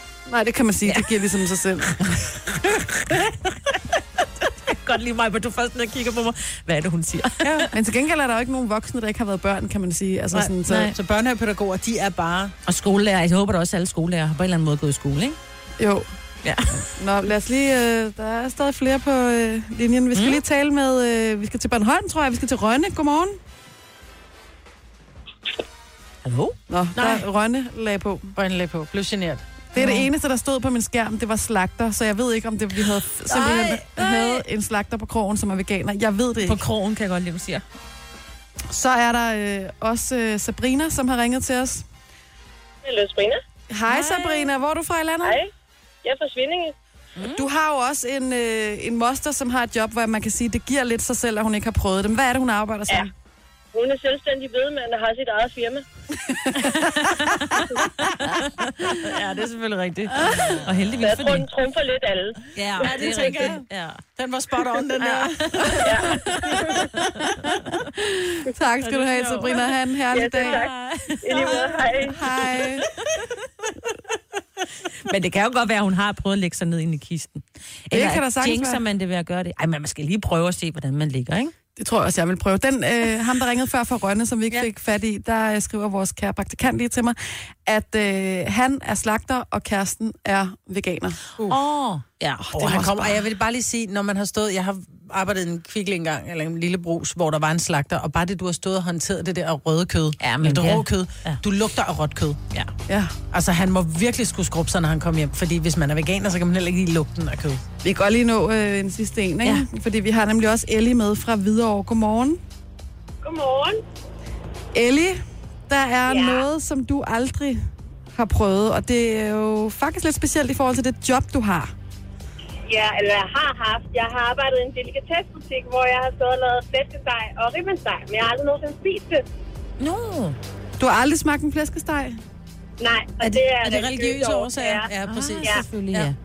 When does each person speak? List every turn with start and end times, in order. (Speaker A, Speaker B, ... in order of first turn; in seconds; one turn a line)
Speaker A: 0.3-2.0
Speaker B: 0.8-1.2
Speaker B: 1.9-7.7
Speaker A: 7.7-10.9
Speaker C: 10.3-12.5
Speaker B: 10.6-10.9
Speaker B: 12.6-15.4
Speaker A: 15.8-16.1
Speaker B: 16.4-16.9
Speaker A: 16.9-23.4
Speaker B: 20.1-20.4
Speaker B: 26.2-26.6
Speaker A: 26.7-28.3
Speaker C: 26.9-27.2
Speaker C: 28.3-29.4
Speaker A: 29.7-36.6
Speaker B: 29.8-30.1
Speaker B: 33.3-34.4
Speaker B: 36.4-37.6
Speaker A: 38.7-41.8
Speaker D: 42.8-43.4
Speaker A: 43.7-45.4
Speaker B: 43.9-44.5
Speaker D: 45.2-45.5
Speaker D: 46.0-46.7
Speaker B: 47.1-47.5
Speaker A: 47.3-53.1
Speaker D: 53.7-55.8
Speaker B: 56.5-61.5
Speaker D: 61.0-63.1
Speaker B: 62.5-64.0
Speaker C: 62.8-66.1
Speaker B: 65.0-67.8
Speaker D: 65.8-66.9
Speaker A: 68.0-70.6
Speaker B: 68.8-69.7
Speaker D: 70.1-70.7
Speaker B: 70.4-73.3
Speaker D: 71.2-72.2
Speaker A: 72.1-72.9
Speaker B: 74.8-81.5
Speaker A: 77.9-78.8
Speaker A: 81.8-91.2
Speaker B: 91.5-92.7
Speaker C: 92.5-102.4
Speaker A: 92.5-93.2
Speaker B: 100.2-101.4
Speaker A: 102.9-103.1
Speaker C: 103.3-107.6
Speaker A: 107.8-112.4
Speaker D: 113.2-113.8
Speaker A: 114.7-117.6
Speaker D: 116.1-116.4
Speaker A: 118.1-121.7
Speaker D: 122.7-129.2
Speaker B: 129.8-130.4
Speaker A: 130.8-132.2
Speaker D: 132.8-134.9
Speaker C: 133.2-136.1
Speaker B: 135.1-136.2